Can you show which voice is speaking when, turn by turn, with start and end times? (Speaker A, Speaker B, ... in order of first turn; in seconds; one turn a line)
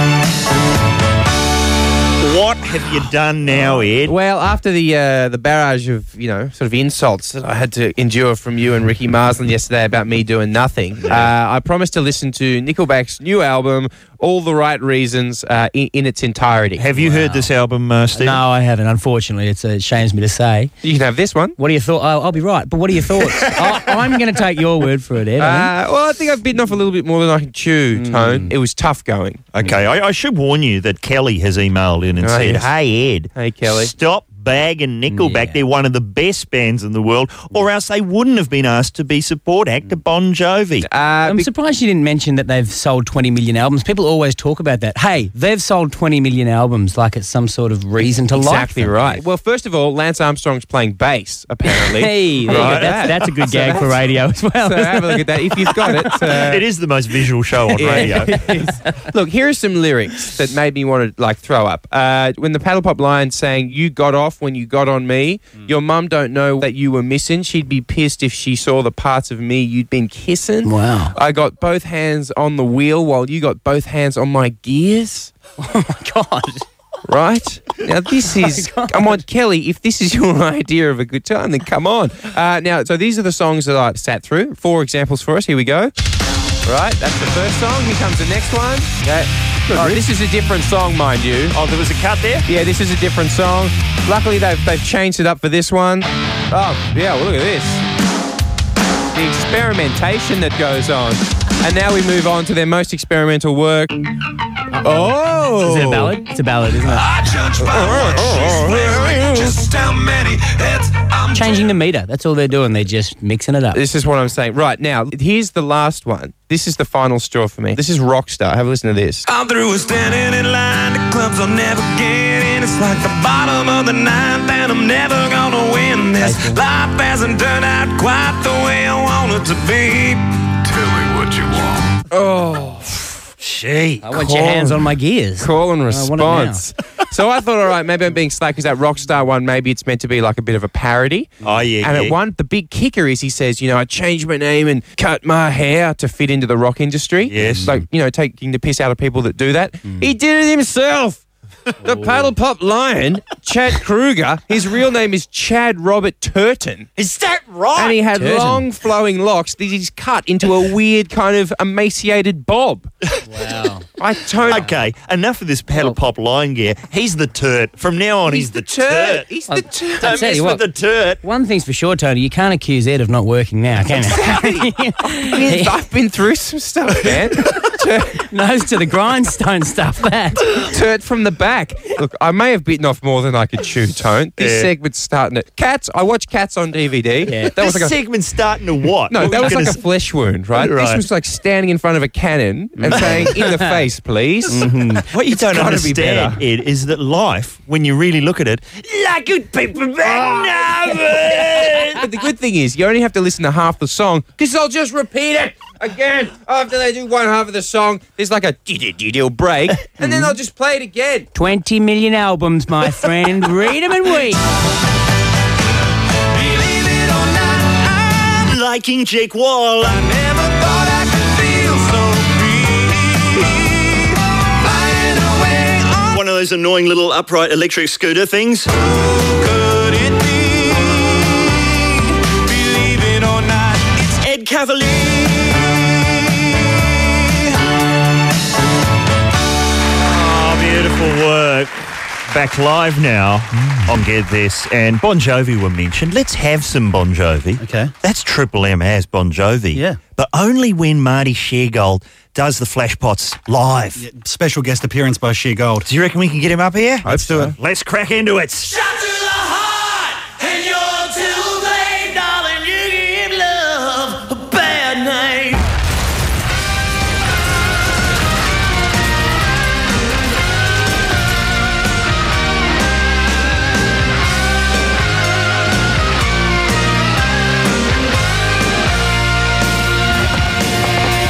Speaker A: 2.2-4.1
Speaker B: 4.0-16.9
Speaker A: 16.8-18.4
Speaker C: 17.0-17.5
Speaker C: 18.1-20.7
Speaker B: 20.8-21.6
Speaker C: 21.6-25.7
Speaker B: 25.4-29.5
Speaker C: 27.9-28.5
Speaker A: 29.5-40.9
Speaker B: 32.2-32.7
Speaker B: 33.3-33.9
Speaker C: 35.1-35.6
Speaker B: 40.9-41.5
Speaker C: 41.2-49.2
Speaker B: 48.0-54.0
Speaker C: 51.7-56.4
Speaker A: 52.5-53.2
Speaker B: 54.6-56.6
Speaker A: 56.3-58.4
Speaker B: 57.7-75.3
Speaker C: 57.8-59.0
Speaker C: 70.6-71.1
Speaker C: 75.6-76.6
Speaker B: 77.1-85.9
Speaker C: 78.2-79.2
Speaker B: 86.6-91.5
Speaker A: 89.7-90.0
Speaker A: 91.5-92.5
Speaker B: 92.5-97.8
Speaker B: 99.1-104.0
Speaker B: 104.8-106.2
Speaker C: 105.5-107.0
Speaker D: 106.8-111.7
Speaker B: 107.9-108.4
Speaker C: 111.3-113.8
Speaker B: 113.7-119.3
Speaker D: 119.2-131.9
Speaker C: 126.2-126.6
Speaker B: 132.1-132.8
Speaker C: 132.3-132.7
Speaker A: 133.4-134.1
Speaker C: 134.0-136.7
Speaker B: 134.1-134.8
Speaker B: 135.4-141.3
Speaker A: 141.4-142.2
Speaker B: 141.8-151.2
Speaker A: 147.2-147.8
Speaker B: 151.8-156.9
Speaker C: 151.8-152.3
Speaker A: 157.0-157.9
Speaker B: 157.8-162.9
Speaker C: 158.0-158.7
Speaker C: 163.2-163.8
Speaker B: 164.0-164.7
Speaker A: 164.5-169.2
Speaker B: 168.3-170.2
Speaker C: 169.5-170.6
Speaker A: 170.0-171.2
Speaker C: 171.2-175.8
Speaker B: 174.0-178.2
Speaker C: 178.2-180.7
Speaker B: 180.7-187.9
Speaker A: 184.4-184.7
Speaker C: 187.3-187.5
Speaker A: 187.6-189.8
Speaker B: 189.1-196.4
Speaker A: 190.5-191.0
Speaker C: 192.8-193.8
Speaker A: 192.9-193.2
Speaker C: 194.5-195.0
Speaker A: 195.1-202.0
Speaker B: 201.9-211.3
Speaker C: 210.0-210.3
Speaker C: 211.3-214.4
Speaker D: 216.3-218.4
Speaker A: 218.5-220.0
Speaker D: 219.9-226.2
Speaker A: 226.1-228.7
Speaker D: 228.8-234.2
Speaker A: 234.2-235.2
Speaker D: 234.9-235.2
Speaker A: 240.0-241.7
Speaker A: 242.3-254.0
Speaker E: 247.6-247.9
Speaker E: 249.7-250.0
Speaker E: 253.9-255.8
Speaker A: 255.8-258.7
Speaker B: 257.1-257.5
Speaker E: 257.1-257.5